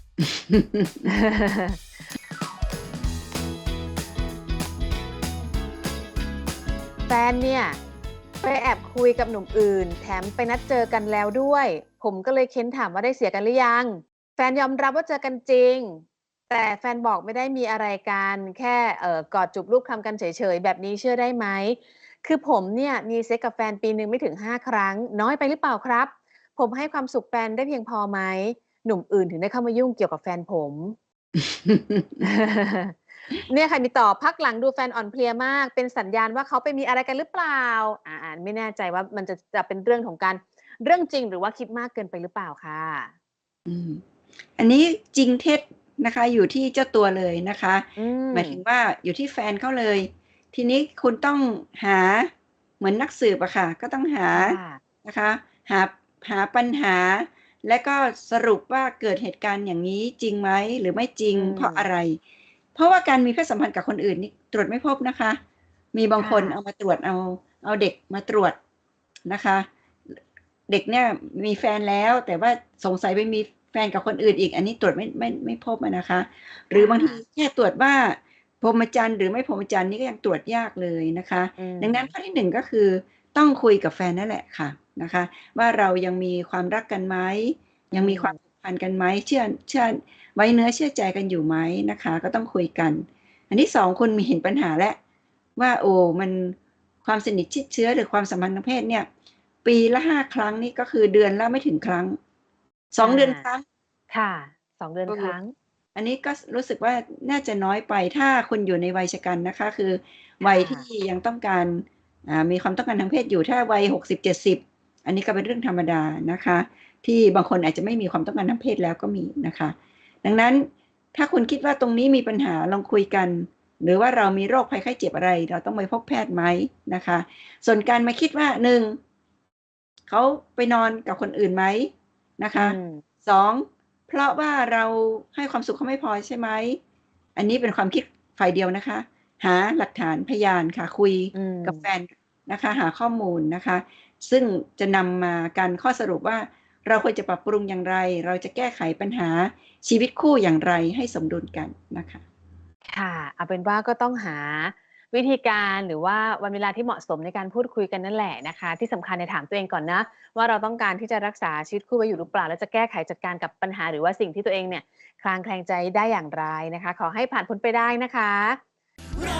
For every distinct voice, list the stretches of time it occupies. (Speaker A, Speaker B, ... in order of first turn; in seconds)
Speaker A: 0.2-1.1, 31.3-32.3, 43.7-44.0, 44.6-62.2, 62.7-65.4, 65.9-68.6, 69.3-70.2, 70.7-95.0, 95.5-99.1, 99.6-102.2, 102.9-103.6, 105.1-105.3, 105.9-129.0, 130.1-136.8, 137.3-152.2
Speaker B: 1.0-1.8, 7.1-7.8, 8.4-31.0, 32.2-43.1, 48.0-48.6, 54.3-54.8, 61.3-61.9, 66.2-66.6, 76.7-77.2, 81.6-82.1, 87.9-88.4, 103.0-103.5, 104.1-105.5, 110.4-110.8, 132.5-133.0, 141.3-141.8, 152.9-168.6